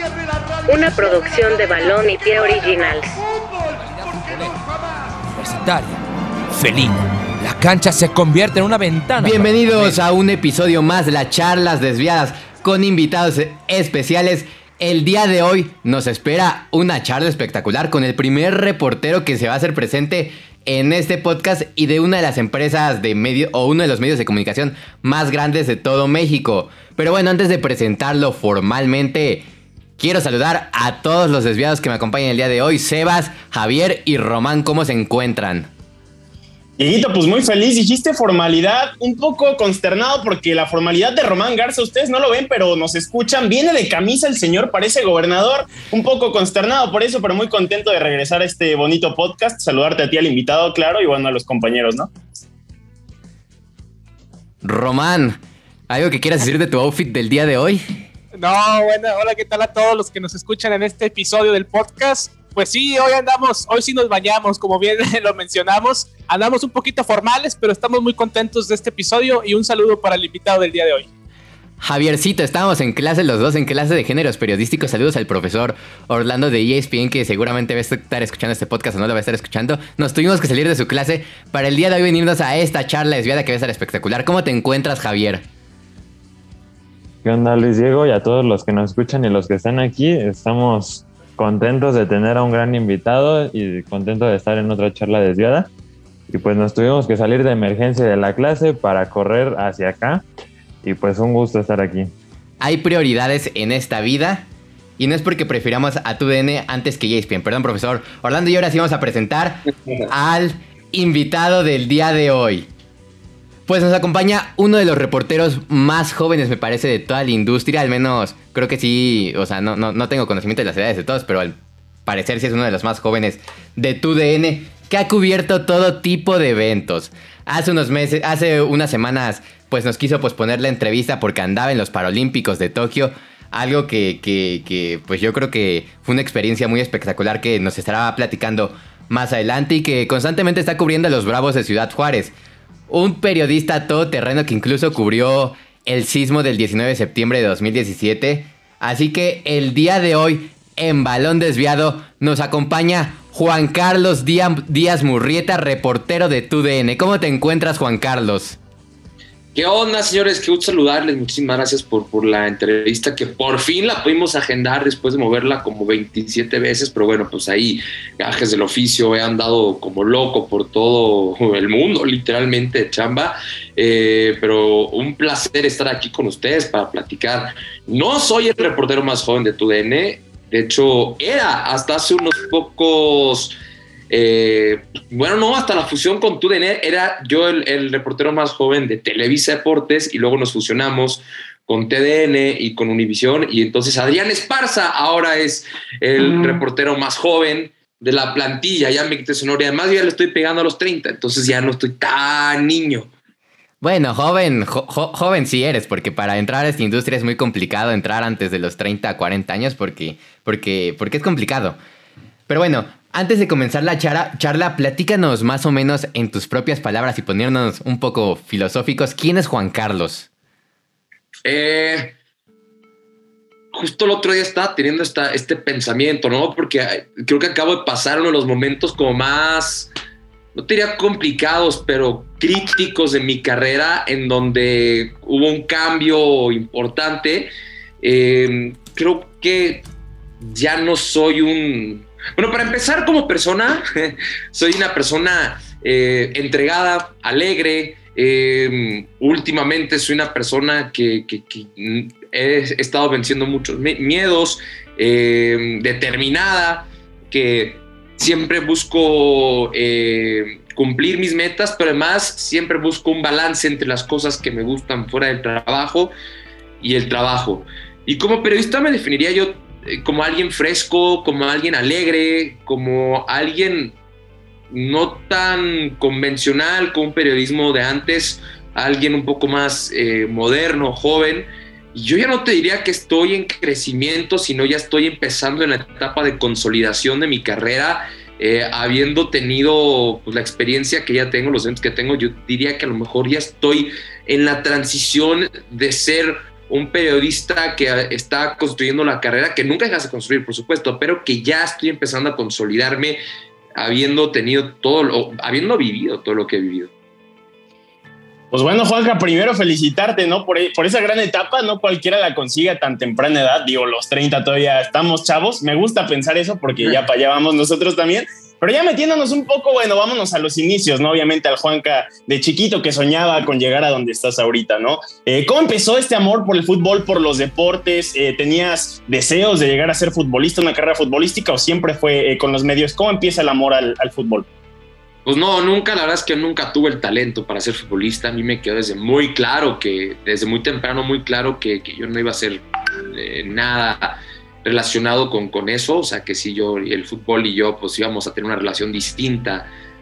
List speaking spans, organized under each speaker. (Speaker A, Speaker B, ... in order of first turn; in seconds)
Speaker A: 0.7-3.2
Speaker B: 3.9-4.6, 5.4-10.0
Speaker C: 9.2-35.7, 54.6-57.8, 71.8-85.4, 102.6-104.5, 105.0-112.7, 113.7-142.3, 142.9-158.6, 203.8-211.8, 212.5-220.3
Speaker D: 36.8-52.1, 308.5-334.5
Speaker E: 58.3-71.1
Speaker F: 87.2-95.7, 96.3-100.2, 100.8-102.1
Speaker G: 159.5-183.5, 184.1-203.1, 221.4-222.2, 223.7-229.9, 230.5-239.8, 240.4-266.1, 266.8-273.9, 274.7-303.2, 303.8-306.9, 335.2-349.7